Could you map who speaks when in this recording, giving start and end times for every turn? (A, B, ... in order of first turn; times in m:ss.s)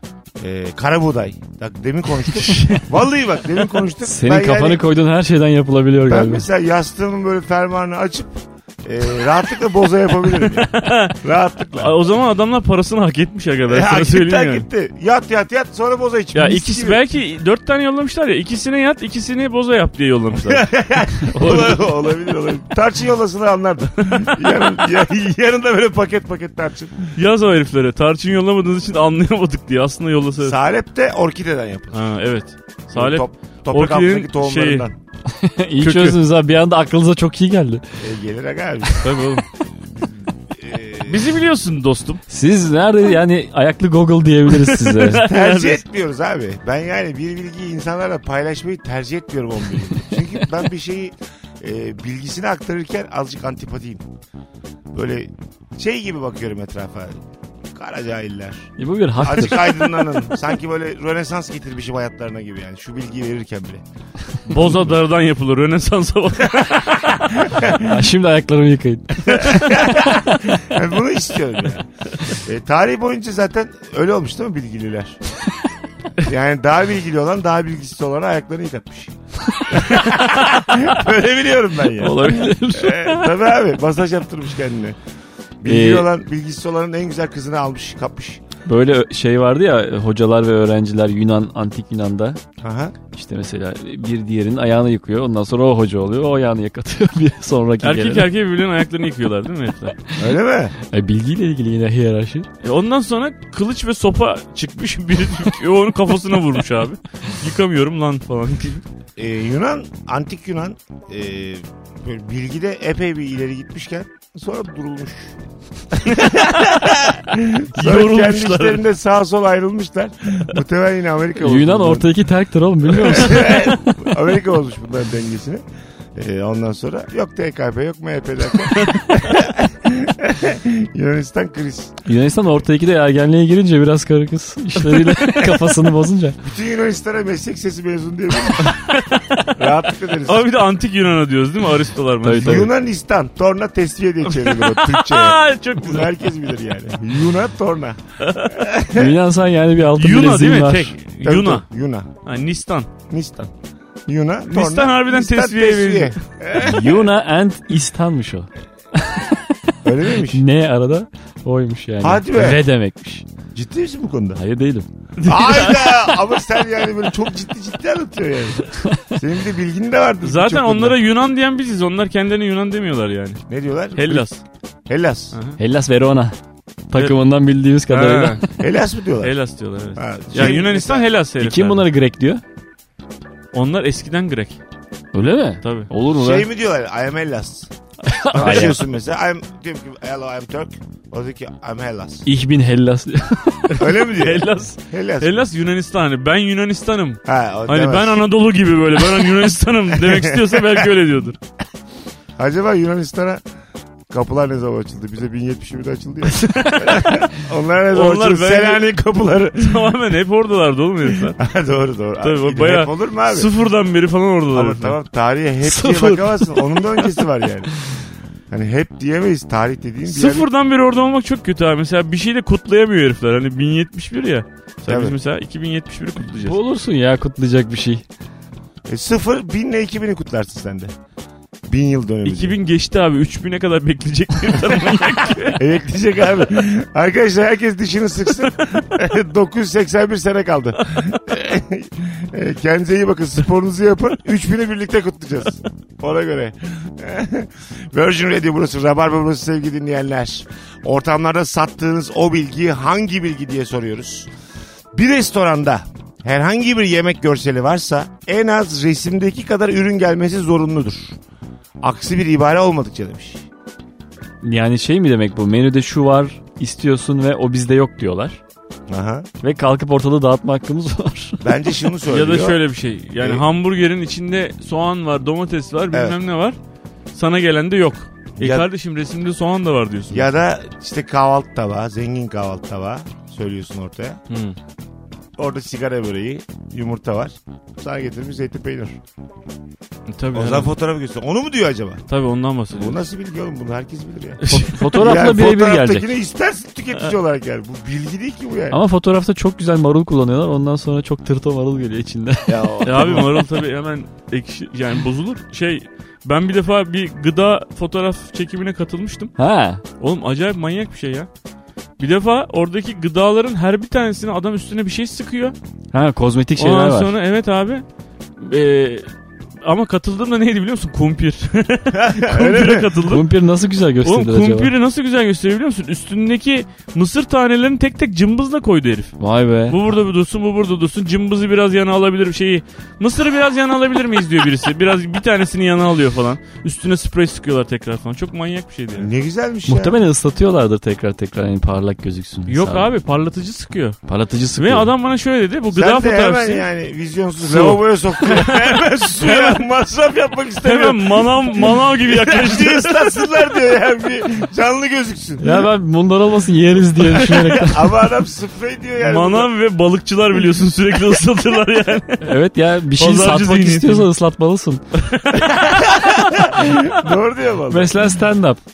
0:00.4-0:04.8 A
0:02.4-0:02.8 B
0:04.0-0:06.4 C
0:06.1-0:12.0 A
0:10.3-0:11.2 B
0:11.7-0:14.7 B
0:13.7-0:17.0 A
0:16.4-0:21.9 B
0:20.4-0:27.1 A
0:27.2-0:30.6 B
0:30.4-0:32.0 A
0:31.9-0:34.9 B
0:32.9-0:35.0 A
0:35.3-0:37.8 C
0:35.8-0:36.2 B
0:38.0-0:39.0 A
0:39.0-0:39.4 B
0:39.9-0:41.2 A
0:41.1-0:42.2 B
0:42.3-0:45.2 C
0:44.5-0:45.8 B
0:45.2-0:54.0 A
0:54.9-0:57.2 A
0:57.7-1:03.8 A
0:58.8-0:59.9 C
1:04.5-1:07.2 B
1:04.5-1:04.8 A
1:07.3-1:08.0 A
1:07.8-1:09.7 C
1:09.3-1:15.2 A
1:16.2-1:19.1 A
1:19.7-1:25.0 A
1:22.0-1:23.3 C
1:25.6-1:28.4 A
1:25.7-1:26.1 C
1:28.7-1:32.4 C
1:32.6-1:33.0 A
1:33.1-1:38.3 C
1:37.8-1:40.0 B
1:40.2-1:40.7 A
1:40.8-1:42.5 C
1:42.6-1:48.8 B
1:49.2-1:55.4 A
1:55.9-2:02.1 A
1:57.8-1:58.8 B
2:01.4-2:03.8 C
2:02.9-2:05.6 A
2:06.2-2:12.0 A
2:08.7-2:09.0 B
2:12.0-2:16.4 C
2:14.8-2:15.5 B
2:16.4-2:18.8 A
2:18.6-2:19.5 B
2:19.6-2:20.5 A
2:20.2-2:22.7 B
2:22.2-2:22.7 C
2:22.4-2:29.2 A
2:24.3-2:26.2 B
2:28.2-2:28.6 B
2:28.9-2:31.0 C
2:30.0-2:31.7 B
2:31.2-2:32.1 A
2:32.2-2:32.9 B
2:33.1-2:33.5 A
2:34.1-2:37.0 A
2:34.5-2:36.2 B
2:36.6-2:39.6 C
2:39.8-2:40.4 A
2:40.2-2:43.2 C
2:42.0-2:42.6 A
2:43.5-2:44.4 A
2:44.4-2:44.9 C
2:45.2-2:46.2 B
2:45.2-2:51.0 A
2:50.2-2:53.4 B
2:53.5-2:54.2 A
2:54.0-2:54.4 B
2:54.9-2:55.4 A
2:55.3-2:55.6 B
2:55.6-2:56.4 C
2:56.9-2:58.4 C
2:57.9-2:58.4 B
2:58.6-2:59.4 A
2:59.2-3:01.9 B
3:00.0-3:01.1 A
3:01.4-3:02.4 C
3:03.5-3:04.6 B
3:05.1-3:06.5 C
3:05.6-3:05.9 B
3:06.1-3:07.7 A
3:08.1-3:08.8 C
3:08.3-3:12.2 A
3:08.4-3:08.7 B
3:12.2-3:13.8 C
3:13.7-3:21.4 B
3:13.8-3:15.4 A
3:17.3-3:18.2 A
3:19.9-3:20.9 A
3:22.4-3:23.4 A
3:24.1-3:29.9 A
3:26.3-3:27.3 B
3:27.9-3:28.9 B
3:29.6-3:31.4 B
3:31.3-3:33.5 A
3:32.2-3:35.0 B
3:34.5-3:37.7 A
3:35.6-3:37.1 C
3:38.5-3:40.5 A
3:40.1-3:46.6 B
3:44.9-3:45.2 A
3:46.4-3:48.0 C
3:48.9-3:50.9 A
3:51.7-3:52.6 A
3:52.2-3:55.6 B
3:55.5-4:14.3 A
4:14.9-4:21.2 A
4:21.8-4:23.4 A
4:24.4-4:28.4 C
4:28.9-4:29.3 A
4:29.4-4:31.4 C
4:31.4-4:32.6 A
4:32.1-4:36.6 B
4:35.9-4:36.2 A
4:37.1-4:40.3 B
4:38.4-4:38.7 A
4:40.1-4:44.2 A
4:44.3-4:44.6 B
4:45.4-4:49.0 A
4:50.1-4:50.7 B
4:50.3-4:52.0 A
4:52.1-4:53.0 B
4:52.7-4:58.8 A
4:54.4-4:54.8 B
4:54.5-4:56.1 C
4:58.7-5:02.8 C
5:02.5-5:03.4 A
5:02.8-5:09.3 B
5:09.4-5:09.8 C
5:10.0-5:11.3 B
5:12.0-5:15.6 B
5:15.9-5:17.2 C
5:16.6-5:17.8 B
5:18.4-5:19.1 B
5:19.6-5:23.3 B
5:21.9-5:22.9 A
5:23.0-5:24.7 C
5:24.0-5:29.2 B
5:29.2-5:29.8 C
5:29.7-5:39.1 B
5:38.9-5:40.0 A
5:39.7-5:42.9 C
5:42.5-5:44.0 B
5:44.1-5:44.9 C
5:44.6-5:46.7 B
5:45.7-5:55.6 A
5:47.4-5:49.6 B
5:50.6-5:53.2 B
5:55.4-5:57.9 C
5:57.1-5:59.5 A
5:59.0-6:02.3 B
6:02.2-6:04.8 C
6:03.0-6:04.1 B
6:05.0-6:06.3 B
6:05.4-6:08.1 A
6:07.7-6:08.6 C